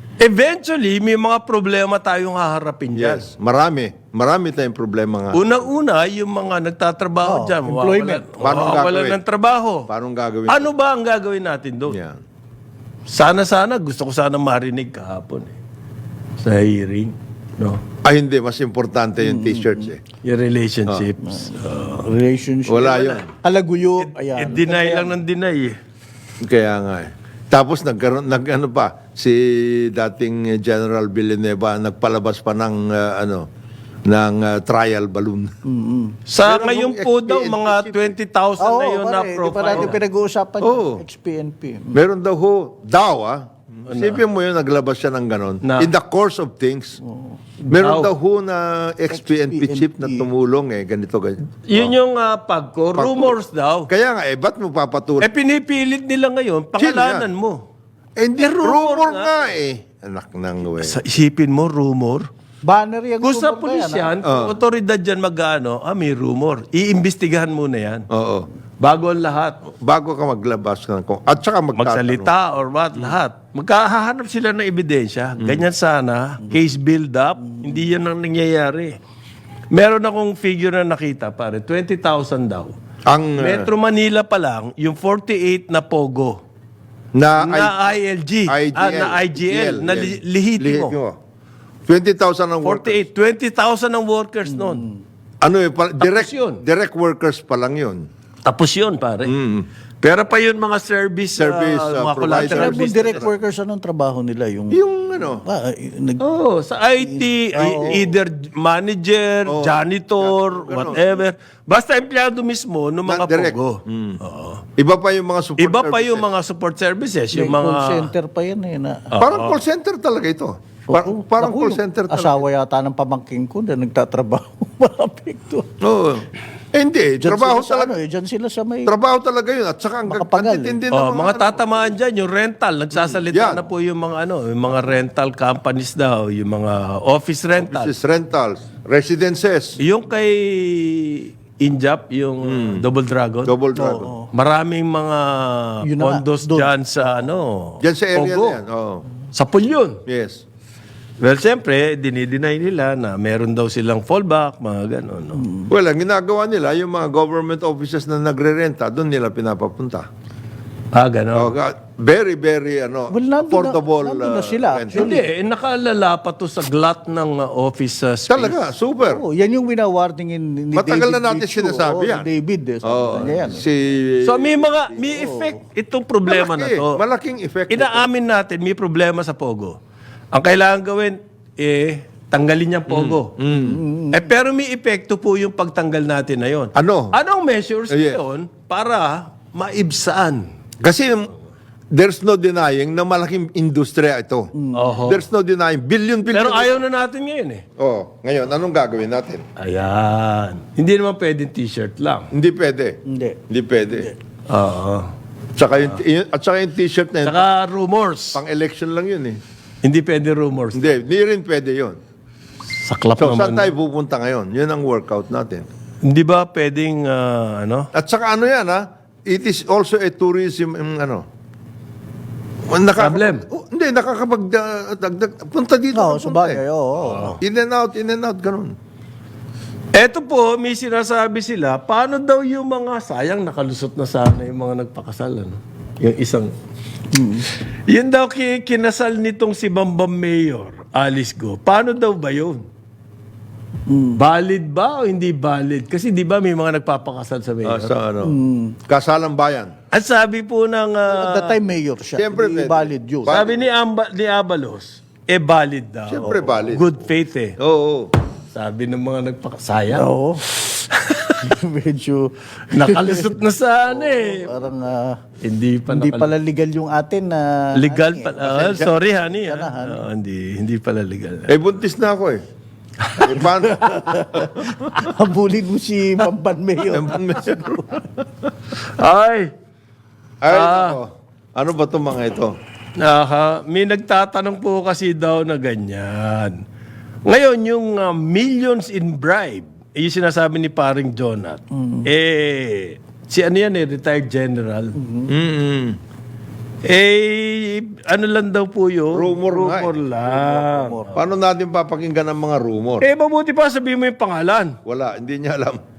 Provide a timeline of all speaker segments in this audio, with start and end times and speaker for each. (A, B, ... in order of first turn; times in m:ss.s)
0:00.2-0:03.3 A
0:03.0-0:05.4 B
0:05.3-0:09.9 A
0:07.2-0:08.4 C
0:08.4-0:09.2 B
0:09.9-0:10.7 B
0:10.5-0:12.0 A
0:11.9-0:12.2 B
0:13.1-0:15.6 A
0:16.4-0:17.8 A
0:18.0-0:20.0 B
0:19.2-0:19.9 C
0:20.2-0:22.1 A
0:21.3-0:25.1 C
0:22.7-0:23.3 B
0:24.0-0:25.8 A
0:26.4-0:33.5 B
0:34.1-0:35.5 B
0:35.6-0:36.2 C
0:36.3-0:40.0 A
0:36.4-0:38.2 B
0:38.6-0:42.0 C
0:40.6-0:41.0 B
0:41.9-0:47.0 B
0:43.9-0:44.2 A
0:45.6-0:45.9 A
0:47.0-0:47.4 C
0:47.6-0:48.1 A
0:47.7-0:51.9 B
0:49.1-0:50.3 C
0:51.7-0:53.9 A
0:53.0-0:53.4 B
0:53.9-0:55.3 B
0:55.2-0:57.6 A
0:56.8-0:57.3 B
0:58.2-1:01.0 B
0:58.4-0:59.4 A
1:00.8-1:02.3 A
1:02.6-1:04.1 C
1:03.2-1:08.1 A
1:04.2-1:04.6 B
1:08.1-1:08.5 B
1:08.8-1:09.6 A
1:09.8-1:12.3 B
1:11.8-1:19.0 A
1:15.4-1:15.6 B
1:19.7-1:22.8 A
1:23.1-1:23.7 B
1:23.4-1:26.4 A
1:27.1-1:27.9 B
1:27.4-1:31.0 A
1:28.5-1:31.2 B
1:31.9-1:33.0 B
1:32.6-1:34.9 A
1:34.5-1:35.0 C
1:35.4-1:38.1 B
1:36.0-1:36.6 A
1:38.4-1:39.3 A
1:39.3-1:39.7 B
1:40.0-1:43.3 A
1:41.4-1:43.3 B
1:42.3-1:44.8 C
1:44.7-1:45.4 B
1:45.4-1:46.2 C
1:46.2-1:54.6 A
1:47.0-1:48.1 C
1:49.5-1:51.2 B
1:53.1-1:54.2 B
1:54.8-1:56.3 B
1:55.6-1:58.1 A
1:57.3-1:59.1 C
1:59.1-1:59.6 A
1:59.2-2:02.4 B
2:00.9-2:05.7 C
2:05.8-2:07.9 B
2:07.2-2:08.9 C
2:08.9-2:11.8 B
2:10.1-2:10.8 C
2:10.9-2:17.9 A
2:12.9-2:13.6 B
2:17.6-2:19.8 B
2:19.8-2:23.6 A
2:22.5-2:22.9 B
2:23.4-2:24.1 B
2:23.8-2:24.3 C
2:24.3-2:28.6 A
2:25.8-2:27.2 C
2:27.8-2:29.0 B
2:29.3-2:30.0 A
2:30.1-2:30.4 B
2:31.2-2:35.5 A
2:35.4-2:35.7 C
2:35.7-2:40.1 B
2:40.9-2:41.5 A
2:41.4-2:45.2 B
2:43.1-2:45.2 C
2:44.9-2:48.7 A
2:48.3-2:49.2 B
2:49.0-2:53.7 C
2:50.7-2:52.3 B
2:52.8-2:55.1 B
2:54.2-2:57.0 A
2:55.1-2:55.6 C
2:56.3-2:58.1 B
2:57.7-2:59.8 A
3:00.3-3:03.3 A
3:02.9-3:03.8 B
3:03.5-3:04.3 C
3:04.1-3:10.5 A
3:06.8-3:07.2 B
3:07.9-3:08.2 B
3:10.8-3:11.3 B
3:11.9-3:14.5 B
3:14.6-3:15.1 C
3:14.7-3:15.2 A
3:15.1-3:16.8 B
3:16.3-3:17.6 A
3:17.8-3:19.4 B
3:19.6-3:22.3 A
3:22.3-3:23.0 B
3:23.1-3:23.4 C
3:23.5-3:24.1 B
3:24.5-3:25.1 A
3:25.6-3:27.5 B
3:27.2-3:28.4 A
3:28.3-3:29.4 B
3:29.8-3:30.9 A
3:30.8-3:32.0 B
3:32.8-3:33.8 A
3:33.2-3:35.7 B
3:36.0-3:37.9 A
3:37.9-3:41.3 B
3:42.7-3:46.6 B
3:43.0-3:43.4 A
3:45.9-3:47.4 C
3:47.0-3:47.4 A
3:47.4-3:48.8 B
3:50.0-3:56.5 A
3:57.1-3:57.5 C
3:57.9-4:02.6 A
4:03.9-4:04.2 C
4:04.2-4:07.9 A
4:07.6-4:09.7 B
4:08.2-4:08.8 C
4:09.9-4:11.6 A
4:11.1-4:13.4 C
4:12.2-4:13.7 B
4:13.3-4:17.6 A
4:16.1-4:16.9 B
4:17.6-4:18.1 B
4:18.5-4:21.5 A
4:19.9-4:20.6 C
4:21.4-4:25.2 C
4:22.7-4:24.5 A
4:25.4-4:26.3 A
4:25.9-4:30.0 C
4:27.8-4:31.5 A
4:28.4-4:28.9 B
4:31.5-4:32.4 B
4:33.0-4:34.4 A
4:33.2-4:34.6 B
4:33.9-4:37.8 C
4:36.9-4:38.2 B
4:38.7-4:39.5 A
4:40.4-4:42.6 B
4:40.5-4:41.0 A
4:43.0-4:46.6 A
4:47.3-4:55.0 A
4:51.8-4:52.1 C
4:55.0-4:55.3 C
4:55.3-4:56.0 B
4:56.9-5:01.3 A
4:59.1-5:00.3 B
5:00.3-5:01.2 C
5:01.1-5:03.1 B
5:03.0-5:04.8 A
5:04.8-5:05.8 B